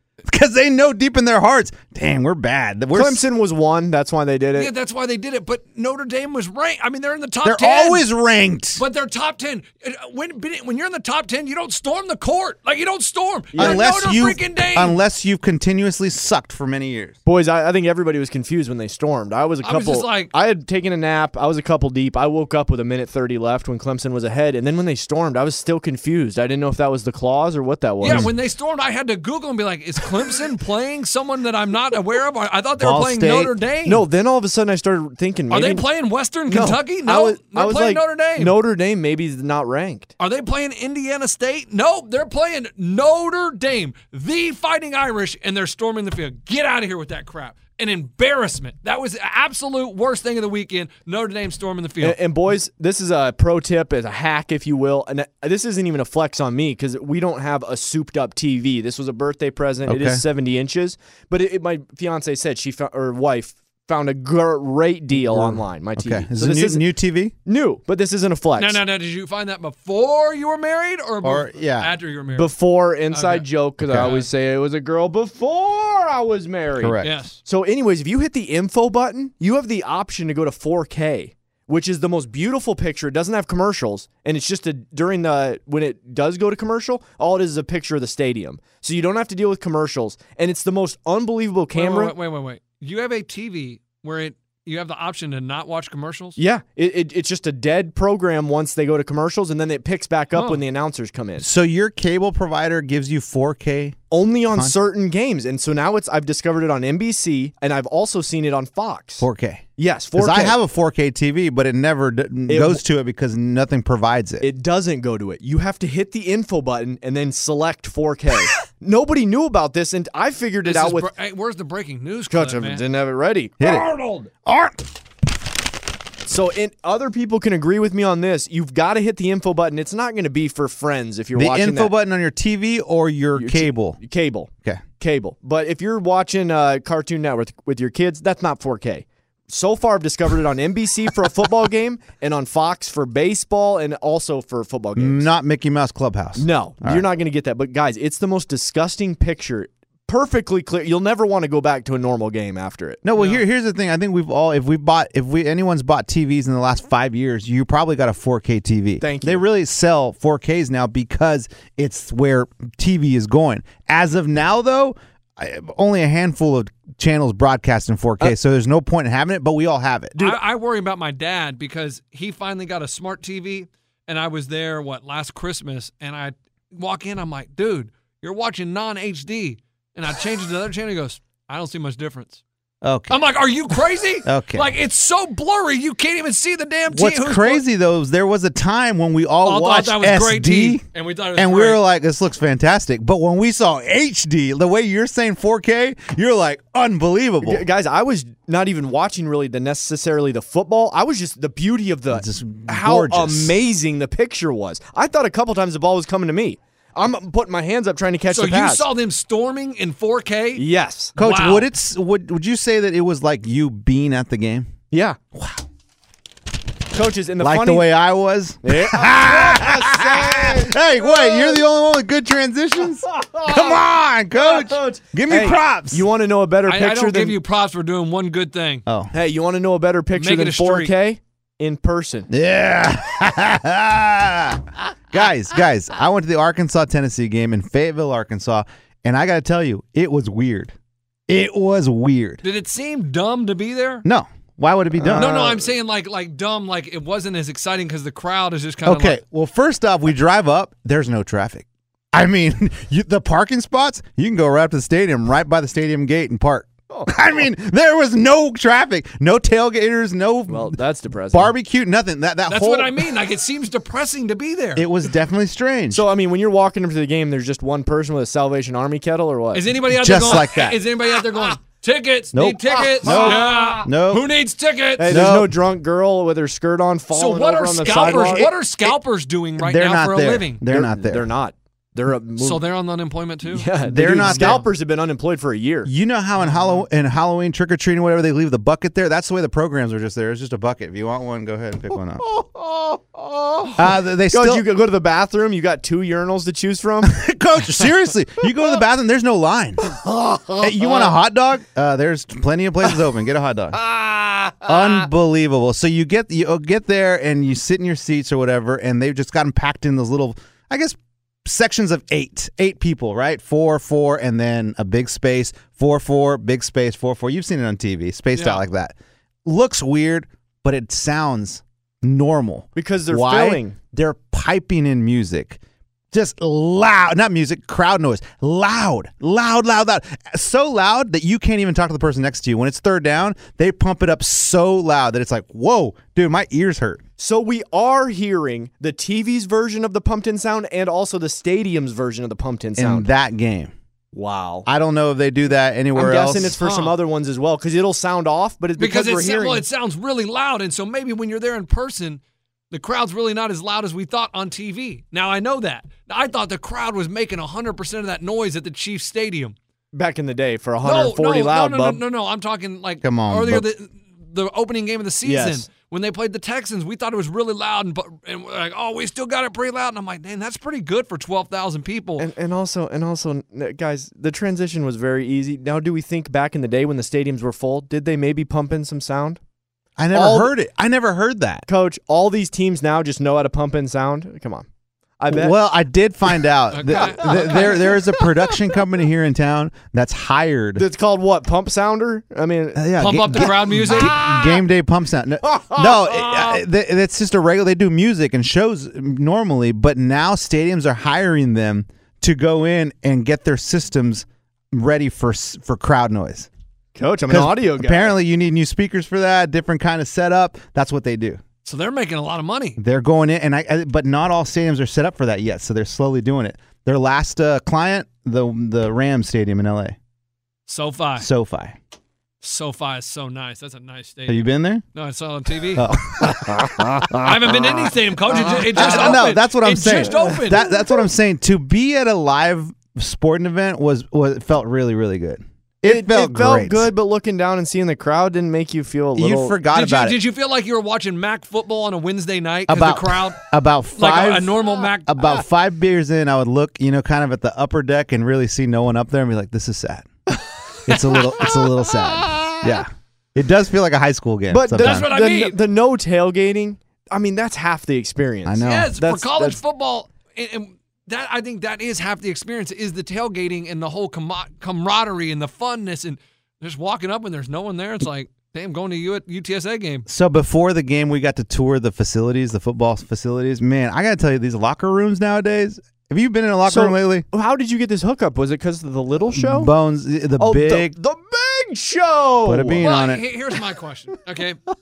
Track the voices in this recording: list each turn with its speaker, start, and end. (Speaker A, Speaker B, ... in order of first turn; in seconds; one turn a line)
Speaker A: 0.2-3.2
Speaker B: 2.9-4.7
Speaker C: 4.5-8.1
Speaker A: 7.4-8.8
Speaker C: 8.8-15.0
Speaker B: 13.5-13.8
Speaker A: 13.6-17.1
Speaker B: 17.2-28.3
Speaker C: 19.6-20.3
Speaker C: 28.0-34.0
Speaker A: 28.0-28.3
Speaker A: 32.8-33.5
Speaker B: 33.9-35.8
Speaker C: 35.5-38.5
Speaker B: 36.5-40.1
Speaker C: 40.2-52.2
Speaker B: 52.0-66.9
Speaker A: 59.9-60.2
Speaker A: 65.1-67.3
Speaker B: 67.4-68.8
Speaker C: 68.6-72.5
Speaker A: 71.2-71.9
Speaker B: 72.3-92.1
Speaker C: 73.1-74.3
Speaker A: 73.8-74.1
Speaker A: 76.8-77.1
Speaker C: 77.0-77.4
Speaker C: 91.7-96.4
Speaker B: 96.4-101.5
Speaker C: 100.3-100.6
Speaker A: 101.4-104.0
Speaker B: 104.1-110.6
Speaker A: 104.5-104.8
Speaker A: 109.2-114.5
Speaker B: 112.5-112.8
Speaker B: 114.4-121.1
Speaker C: 120.6-122.8
Speaker B: 122.3-123.6
Speaker A: 123.6-123.9
Speaker C: 123.6-124.3
Speaker A: 124.4-124.8
Speaker B: 126.2-131.9
Speaker A: 131.3-134.0
Speaker B: 133.3-145.3
Speaker A: 144.9-147.0
Speaker B: 146.3-153.0
Speaker A: 153.0-170.1
Speaker C: 153.2-153.4
Speaker B: 159.0-159.4
Speaker C: 170.2-182.4
Speaker A: 182.8-183.2
Speaker C: 183.1-187.6
Speaker A: 184.2-184.7
Speaker A: 186.9-190.8
Speaker C: 189.4-191.8
Speaker A: 191.3-197.7
Speaker B: 197.4-208.9
Speaker A: 202.1-203.6
Speaker C: 208.3-210.6
Speaker B: 210.6-211.1
Speaker A: 211.2-214.7
Speaker C: 211.2-211.7
Speaker B: 214.9-215.2
Speaker A: 215.3-215.6
Speaker B: 216.9-217.9
Speaker A: 217.4-226.1
Speaker B: 218.6-221.6
Speaker B: 222.9-223.8
Speaker B: 224.3-227.4
Speaker C: 226.7-228.8
Speaker A: 228.8-229.1
Speaker B: 229.1-232.3
Speaker C: 230.1-230.9
Speaker A: 232.3-240.7
Speaker A: 241.3-242.4
Speaker C: 242.4-244.1
Speaker A: 244.0-245.4
Speaker B: 245.0-245.7
Speaker C: 245.2-249.2
Speaker A: 248.8-260.8
Speaker B: 256.9-257.3
Speaker B: 260.5-261.5
Speaker A: 261.3-263.1
Speaker C: 262.5-264.9
Speaker A: 264.8-266.1
Speaker B: 265.9-269.7
Speaker C: 269.5-275.4
Speaker A: 269.9-270.8
Speaker A: 272.3-274.3
Speaker B: 272.9-273.9
Speaker B: 275.0-278.5
Speaker A: 275.1-275.5
Speaker C: 277.1-280.6
Speaker A: 278.4-278.9
Speaker A: 279.6-281.3
Speaker B: 280.6-282.6
Speaker C: 282.4-284.6
Speaker B: 283.5-285.9
Speaker A: 283.8-284.6
Speaker A: 285.8-292.2
Speaker C: 286.4-286.8
Speaker B: 292.2-297.1
Speaker A: 293.8-294.6
Speaker A: 297.0-299.9
Speaker B: 299.9-301.1
Speaker A: 300.6-303.8
Speaker B: 303.8-304.8
Speaker A: 304.6-325.6
Speaker C: 318.3-318.6
Speaker B: 322.8-323.8
Speaker A: 326.1-337.0
Speaker B: 337.2-343.1
Speaker A: 342.8-343.7
Speaker B: 344.1-344.7
Speaker A: 344.6-346.6
Speaker B: 345.9-349.6
Speaker C: 346.6-347.0
Speaker C: 348.8-359.6
Speaker B: 359.9-362.0
Speaker C: 360.8-372.3
Speaker A: 363.0-363.6
Speaker B: 365.2-365.6
Speaker B: 372.2-379.4
Speaker A: 380.0-381.6
Speaker B: 380.1-380.5
Speaker B: 381.7-384.6
Speaker B: 385.2-385.6
Speaker A: 385.3-390.9
Speaker C: 386.7-387.9
Speaker B: 386.9-388.6
Speaker B: 390.8-394.4
Speaker A: 392.7-406.5
Speaker C: 393.0-394.6
Speaker B: 395.4-396.6
Speaker B: 406.9-408.1
Speaker A: 407.3-411.4
Speaker C: 411.6-412.8
Speaker A: 412.8-419.9
Speaker C: 420.7-421.3
Speaker A: 421.2-421.8
Speaker C: 422.4-426.4
Speaker A: 424.3-424.8
Speaker A: 425.7-436.9
Speaker C: 427.1-430.6
Speaker B: 428.3-429.2
Speaker B: 430.0-430.8
Speaker B: 435.8-439.6
Speaker A: 439.1-440.2
Speaker C: 439.7-443.4
Speaker A: 442.7-450.1
Speaker C: 444.0-445.3
Speaker A: 450.9-455.1
Speaker B: 451.1-452.6
Speaker B: 454.5-459.6
Speaker C: 454.8-455.6
Speaker A: 458.4-459.0
Speaker C: 458.6-470.1
Speaker A: 470.1-477.2
Speaker B: 476.6-479.7
Speaker A: 479.3-480.9
Speaker B: 480.4-482.8
Speaker A: 482.4-483.2
Speaker C: 482.8-484.6